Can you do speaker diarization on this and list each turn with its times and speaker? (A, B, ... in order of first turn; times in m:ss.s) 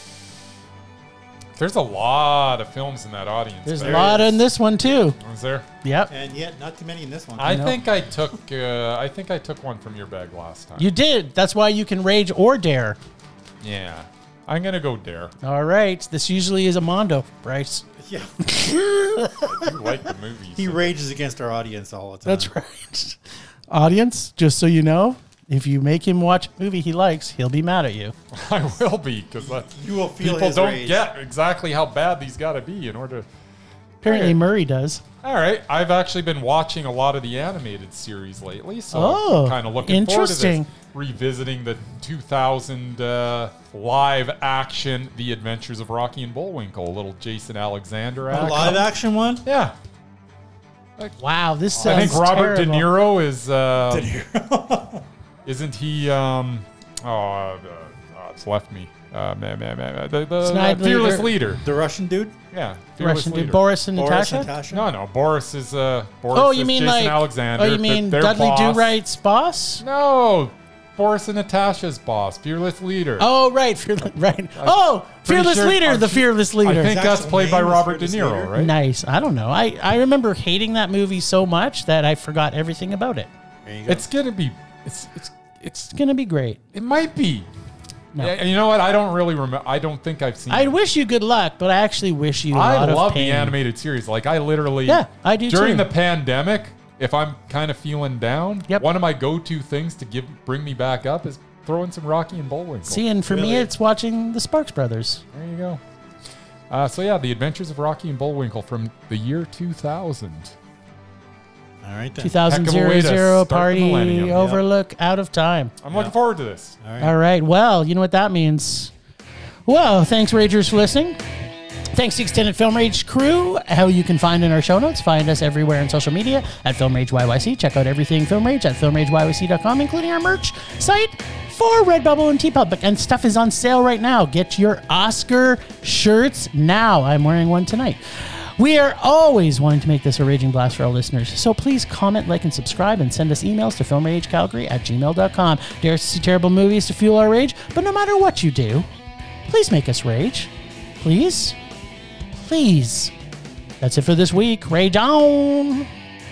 0:01.6-0:04.4 A
0:03.6-0:05.2 B
0:03.8-0:04.3 C
0:05.2-0:05.6 A
0:05.8-0:06.1 B
0:06.1-0:07.8 C
0:07.4-0:10.9 A
0:07.4-0:07.8 B
0:10.8-0:13.0 B
0:13.6-0:15.3 A
0:15.4-0:17.8 B
0:18.0-0:18.7 C
0:18.4-0:19.7 B
0:19.2-0:20.9 A
0:20.6-0:22.5 C
0:22.3-0:28.2 B
0:28.3-0:33.3 A
0:29.4-0:31.1 C
0:34.0-0:34.4 A
0:34.0-0:35.0 B
0:35.2-0:48.9 A
0:38.9-0:40.7 B
0:48.3-0:49.5 C
0:49.4-0:49.8 A
0:51.2-0:52.9 B
0:51.8-0:54.1 A
0:53.9-0:55.0 C
0:55.4-1:01.6 A
1:00.4-1:01.3 B
1:01.6-1:02.4 C
1:02.5-1:03.6 A
1:03.0-1:04.5 B
1:04.0-1:04.9 C
1:04.7-1:09.0 A
1:06.3-1:09.8 B
1:09.8-1:13.3 A
1:13.2-1:17.0 B
1:14.6-1:18.8 A
1:16.8-1:18.5 C
1:18.6-1:23.3 B
1:23.6-1:24.0 C
1:23.9-1:25.7 A
1:25.7-1:26.6 B
1:26.7-1:27.5 A
1:28.2-1:30.8 A
1:30.5-1:33.6 B
1:32.5-1:43.0 A
1:34.9-1:35.9 B
1:42.8-1:45.2 B
1:43.3-1:43.7 C
1:45.3-1:45.8 A
1:46.7-1:50.6 A
1:51.8-1:52.4 C
1:52.2-1:55.7 B
1:52.5-1:54.5 A
1:54.3-1:54.6 C
1:55.8-1:56.8 A
1:56.8-1:57.1 C
1:57.0-1:58.9 B
1:59.7-2:01.2 B
2:01.9-2:28.9 B
2:29.5-2:31.6 B
2:32.3-2:33.1 B
2:33.8-2:35.9 B